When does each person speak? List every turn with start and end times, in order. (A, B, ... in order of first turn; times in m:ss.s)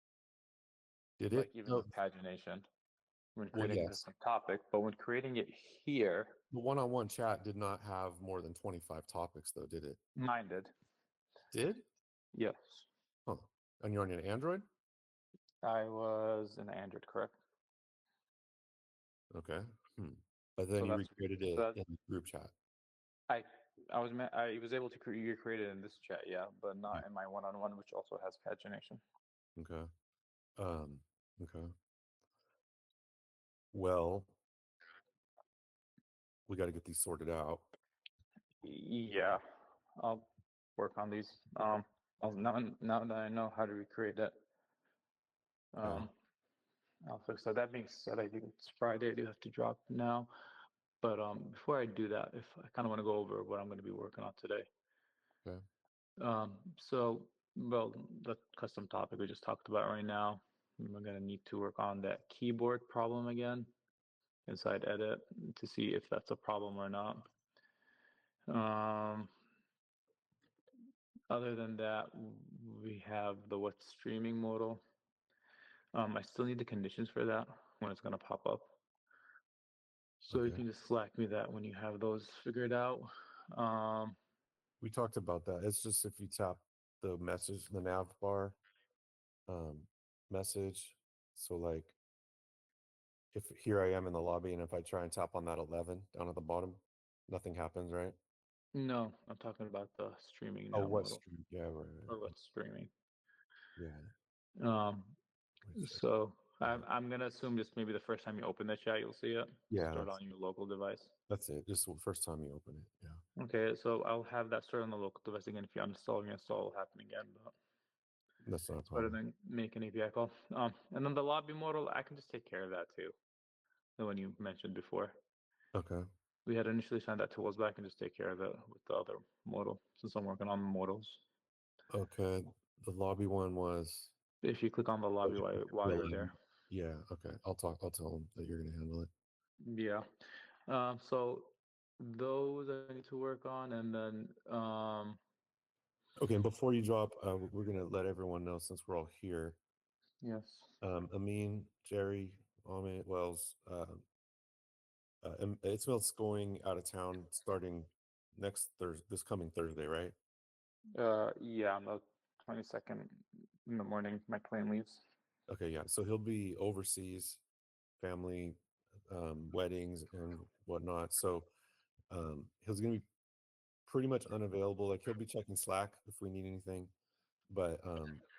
0:01.2-0:01.9 A
0:01.3-0:02.7 B
0:03.4-0:06.4 B
0:03.5-0:04.0 A
0:06.5-0:10.0 A
0:10.2-0:10.7 B
0:11.5-0:11.8 A
0:12.3-0:12.9 B
0:13.3-0:14.6 A
0:15.6-0:17.3 B
0:19.3-0:22.5 A
0:20.8-0:21.8 B
0:23.3-0:29.0 B
0:29.6-0:29.9 A
0:30.6-0:31.7 A
0:33.7-0:34.3 A
0:36.5-0:37.7 A
0:38.6-0:39.4 B
0:40.0-0:44.3 B
0:45.7-0:46.1 B
0:45.8-0:46.1 A
0:47.0-0:50.3 B
0:51.0-0:54.7 B
0:56.2-1:03.7 B
1:04.5-1:07.2 B
1:08.5-1:09.3 B
1:11.3-1:14.8 B
1:15.9-1:18.7 B
1:20.3-1:20.6 A
1:20.3-1:24.2 B
1:24.8-1:28.6 A
1:29.5-1:32.0 A
1:33.3-1:38.2 A
1:38.7-1:41.2 B
1:40.7-1:42.3 A
1:42.1-1:42.9 B
1:43.8-1:44.1 A
1:44.6-1:45.2 B
1:45.6-1:46.0 A
1:45.7-1:51.1 B
1:49.7-1:50.1 A
1:51.3-1:53.2 A
1:53.4-1:57.5 B
1:58.4-1:59.2 A
1:58.9-2:03.1 B
2:04.0-2:05.2 B
2:05.7-2:06.0 A
2:06.4-2:11.2 B
2:11.9-2:14.1 A
2:14.4-2:16.3 B
2:15.2-2:19.1 A
2:19.6-2:20.0 B
2:20.7-2:25.2 B
2:26.2-2:29.6 A
2:30.2-2:30.8 B
2:30.8-2:34.0 A
2:35.2-2:40.1 A
2:40.9-2:45.0 B
2:45.5-2:47.4 A
2:48.0-2:51.5 A
2:52.1-2:53.0 A
2:53.9-2:56.9 A
2:57.5-2:58.2 A